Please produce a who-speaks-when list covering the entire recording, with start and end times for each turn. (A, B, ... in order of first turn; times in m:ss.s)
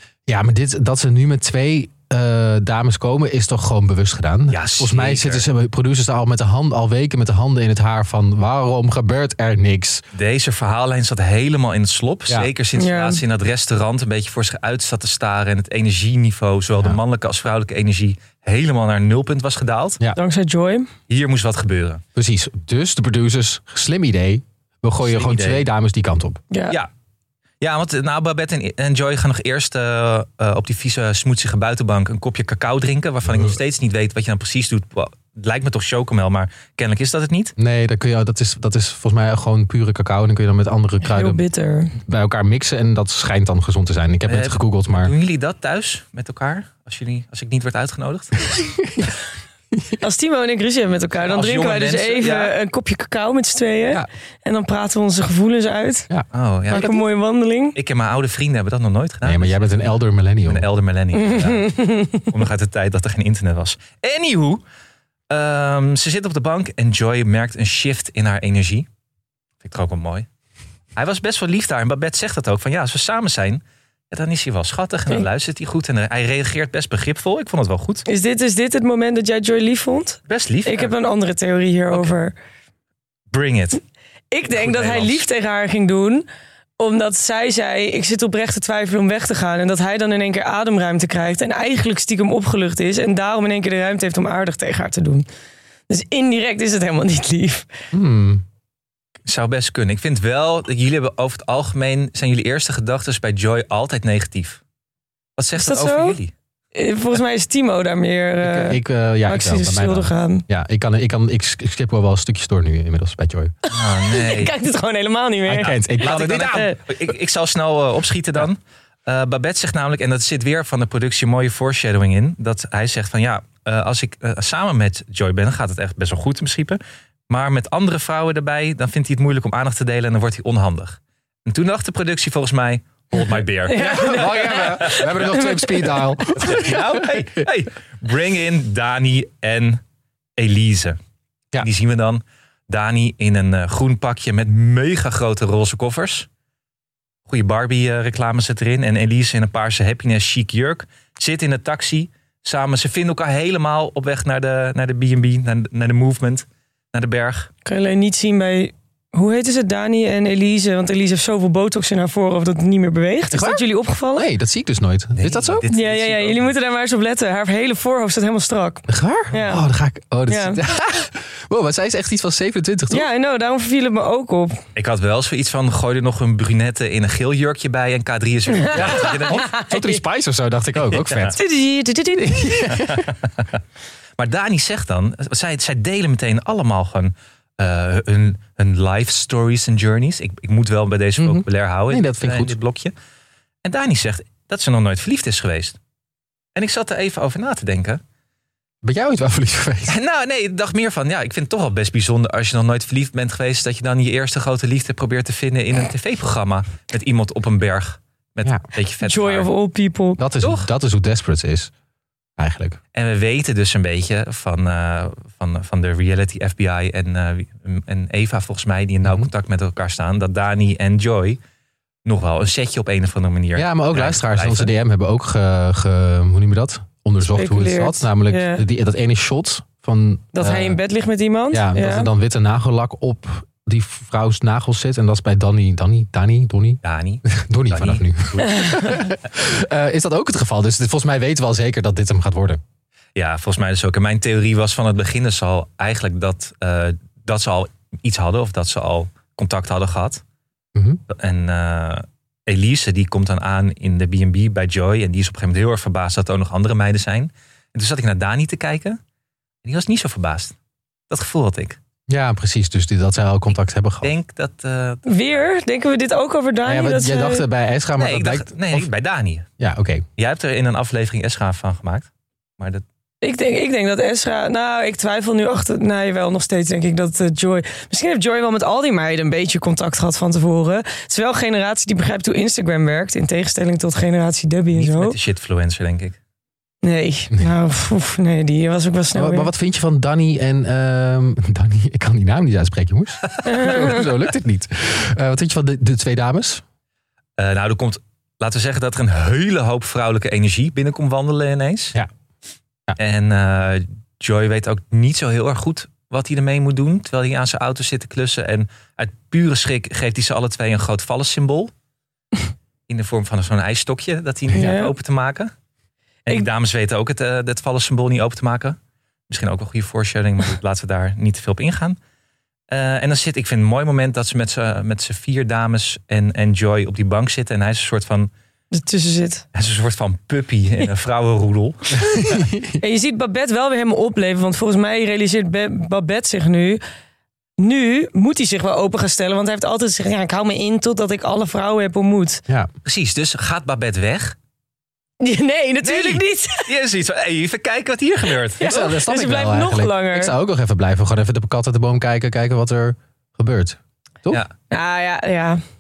0:00.3-0:10.0 A
0:04.5-0:05.5 B
0:10.1-0:20.0 B
0:12.8-0:13.2 C
0:20.2-0:20.9 C
0:21.1-0:22.0 B
0:22.2-0:26.4 A
0:25.0-0:25.6 B
0:26.5-0:26.8 C
0:27.6-0:37.5 B
0:37.6-0:41.4 A
0:41.0-0:42.0 C
0:42.0-0:45.1 A
0:44.3-0:48.4 B
0:48.6-0:49.1 A
0:50.0-0:56.1 C
0:51.2-0:52.6 B
0:56.1-0:57.0 A
0:56.3-0:56.9 B
0:56.7-0:57.8 C
0:57.8-0:59.9 B
0:59.2-1:00.7 A
1:00.5-1:01.7 B
1:01.1-1:02.3 C
1:02.3-1:04.6 B
1:05.3-1:08.9 B
1:09.6-1:10.3 B
1:11.0-1:18.0 B
1:18.1-1:22.3 C
1:20.3-1:21.0 B
1:21.9-1:22.2 B
1:23.3-1:23.8 B
1:24.3-1:26.3 C
1:24.5-1:25.2 B
1:26.8-1:35.2 C
1:35.9-1:37.7 C
1:37.9-1:38.4 A
1:39.3-1:44.6 B
1:45.4-1:46.3 B
1:45.6-1:46.2 C
1:46.7-1:50.4 C
1:48.4-1:53.5 A
1:53.7-1:56.8 C
1:53.7-1:54.5 B
1:55.5-1:56.8 A
1:55.6-2:15.2 B
2:13.7-2:16.1 C
2:13.7-2:17.4 A
2:16.4-2:19.8 B
2:20.4-2:21.0 B
2:21.6-2:26.3 B
2:27.3-2:37.5 B
2:37.6-2:44.3 C
2:43.3-2:43.6 A
2:44.2-2:45.7 A
2:45.2-2:46.5 B
2:45.7-2:49.6 C
2:48.9-2:53.1 A
2:50.3-2:50.6 C
2:52.9-2:54.6 C
2:54.8-2:59.5 B
2:58.6-3:00.0 C
2:58.7-3:01.4 A
3:00.8-3:01.3 B
3:01.4-3:02.7 C
3:02.2-3:03.1 A
3:02.9-3:03.6 B
3:04.2-3:13.0 B
3:11.2-3:12.6 A
3:13.6-3:15.8 B
3:16.6-3:18.0 B
3:18.8-3:20.0 A
3:19.9-3:29.5 B
3:29.0-3:30.2 C
3:30.2-3:31.7 A
3:30.4-3:30.7 B
3:32.4-3:32.8 A
3:32.9-3:41.4 B
3:42.0-3:44.7 B
3:43.6-3:50.8 A
3:47.2-3:48.6 C
3:50.4-3:52.1 C
3:51.5-4:02.6 A
3:56.8-3:58.8 B
3:58.6-3:58.9 C
4:03.2-4:10.2 B
4:10.8-4:11.0 A
4:11.1-4:19.0 B
4:19.6-4:20.6 B
4:21.1-4:21.8 B
4:22.1-4:24.1 A
4:24.0-4:25.5 B
4:25.1-4:27.5 C
4:26.6-4:28.9 A
4:28.0-4:29.5 B
4:29.6-4:30.1 A
4:30.2-4:32.8 B
4:33.2-4:45.2 C
4:44.7-4:46.2 B
4:46.8-4:49.5 C
4:49.2-4:56.6 A
4:53.3-4:53.7 B
4:53.5-4:54.0 C
4:57.4-5:02.0 B
5:03.0-5:11.7 B
5:12.9-5:15.5 B
5:14.5-5:14.9 C
5:16.3-5:18.8 B
5:19.3-5:22.0 B
5:22.7-5:28.3 B
5:28.7-5:29.4 C
5:29.5-5:32.0 B
5:32.0-5:32.8 A
5:32.8-5:36.8 C
5:37.6-5:42.4 C
5:42.8-5:44.4 B
5:45.2-5:46.7 C
5:45.8-5:48.7 B
5:48.6-5:50.3 C
5:48.6-5:54.4 A
5:54.7-5:55.6 C